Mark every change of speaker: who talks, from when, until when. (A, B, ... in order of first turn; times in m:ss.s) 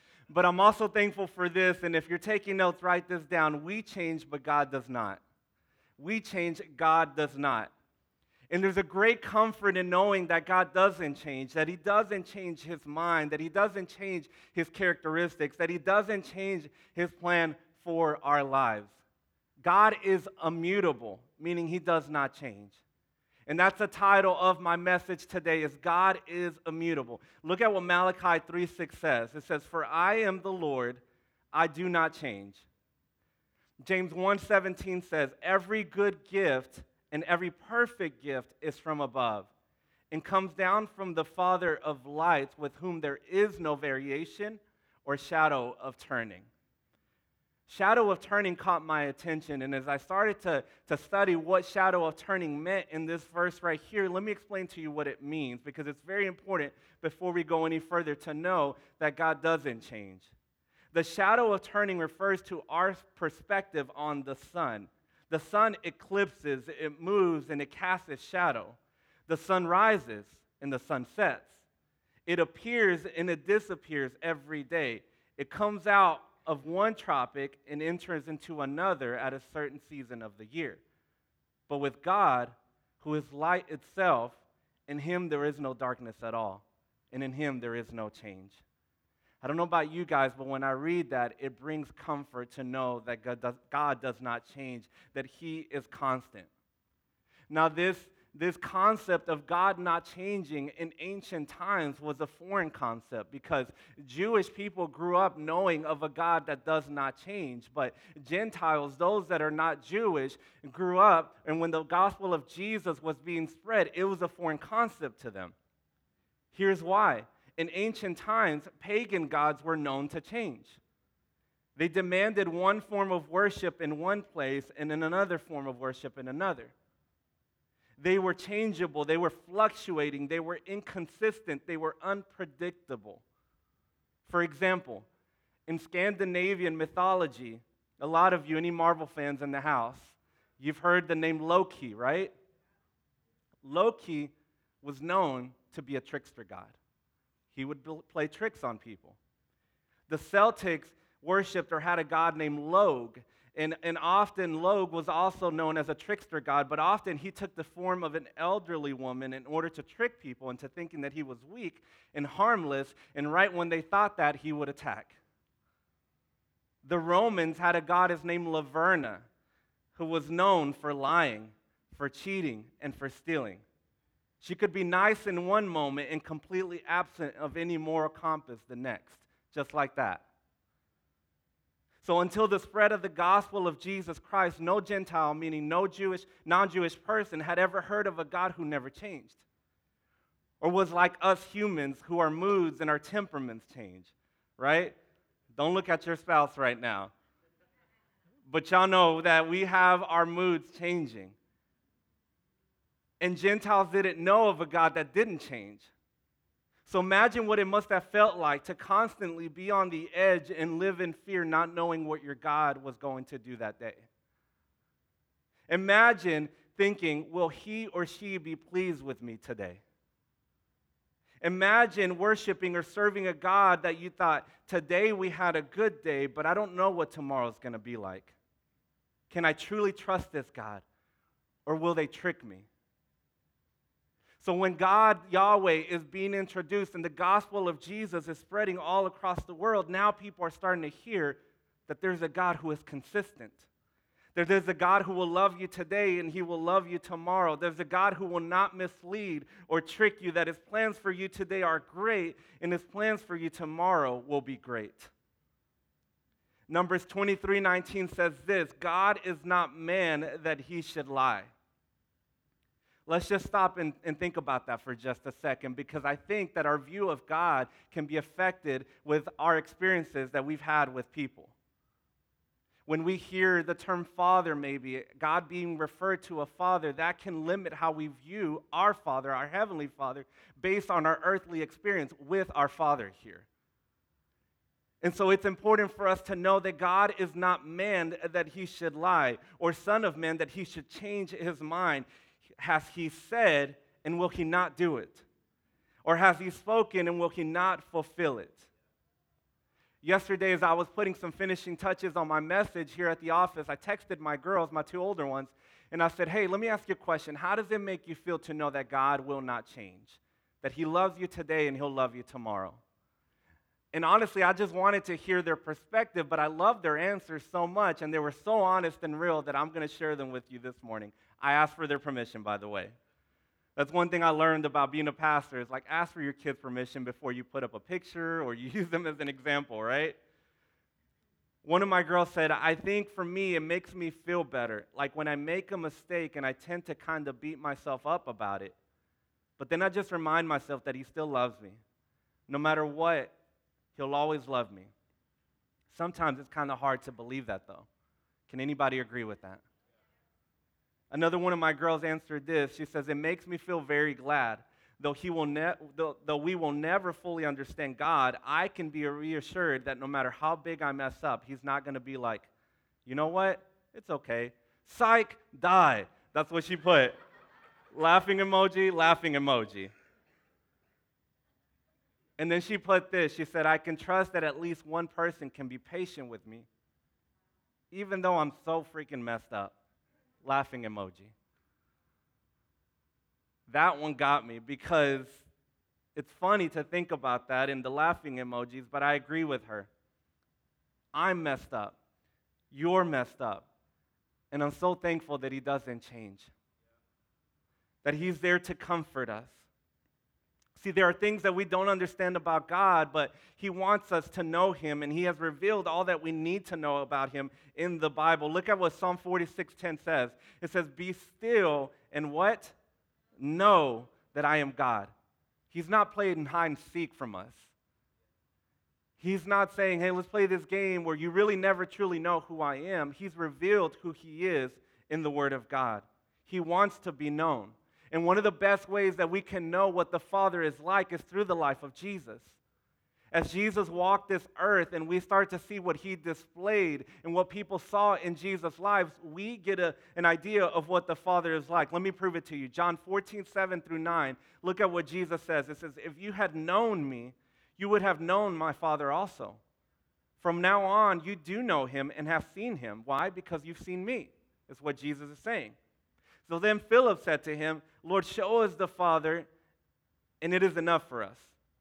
0:00.3-0:05.2 A
0:06.0-0:07.7 A
0:08.5-0:19.0 A
0:19.6-0:22.8 A
0:23.5-0:31.0 A
0:31.5-0:32.6 A
0:33.8-0:39.5 A
0:40.1-0:46.5 A
0:47.7-1:00.3 A
1:00.9-1:11.6 A
1:12.2-1:20.8 A
1:21.7-1:28.6 A
1:29.4-1:36.5 A
1:37.5-1:55.5 A
1:56.5-2:00.8 A
2:01.8-2:06.7 A
2:08.0-2:13.2 A
2:14.2-2:15.0 A
2:15.7-2:22.3 A
2:23.6-2:26.8 A
2:27.5-2:29.2 A
2:30.1-2:45.2 A
2:46.8-2:49.2 A
2:49.9-2:53.6 A
2:54.4-3:00.2 A
3:02.0-3:09.4 A
3:10.6-3:15.0 A
3:15.5-3:17.1 A
3:18.5-3:21.4 A
3:23.2-3:25.9 A
3:26.8-3:34.1 A
3:35.7-3:39.8 A
3:41.4-3:48.3 A
3:49.3-3:50.8 A
3:51.6-3:52.7 A
3:54.4-4:03.7 A
4:04.3-4:15.1 A
4:16.7-4:21.5 A
4:23.0-4:31.5 A
4:32.8-4:43.5 A
4:45.0-4:55.2 A
4:56.0-4:58.7 A
5:00.0-5:12.8 A
5:13.9-5:22.9 A
5:23.8-5:30.2 A
5:31.6-5:38.7 A
5:39.6-5:41.8 A
5:42.5-5:43.3 A
5:43.9-5:44.9 A
5:45.9-5:47.9 A
5:48.5-5:49.6 A
5:51.1-6:02.5 A
6:03.0-6:07.2 A
6:07.9-6:09.9 A
6:12.4-6:16.7 A
6:17.9-6:19.8 A
6:20.4-6:21.3 A
6:23.7-6:25.4 A
6:26.1-6:29.9 A
6:31.1-6:32.0 A
6:32.7-6:33.6 A
6:34.5-6:36.5 A
6:38.0-6:39.6 A
6:40.7-6:52.7 A
6:53.4-6:55.1 A
6:55.7-6:57.7 A
6:59.2-7:12.6 A
7:13.3-7:29.6 A
7:30.4-7:35.8 A
7:36.4-7:39.5 A
7:40.4-7:41.5 A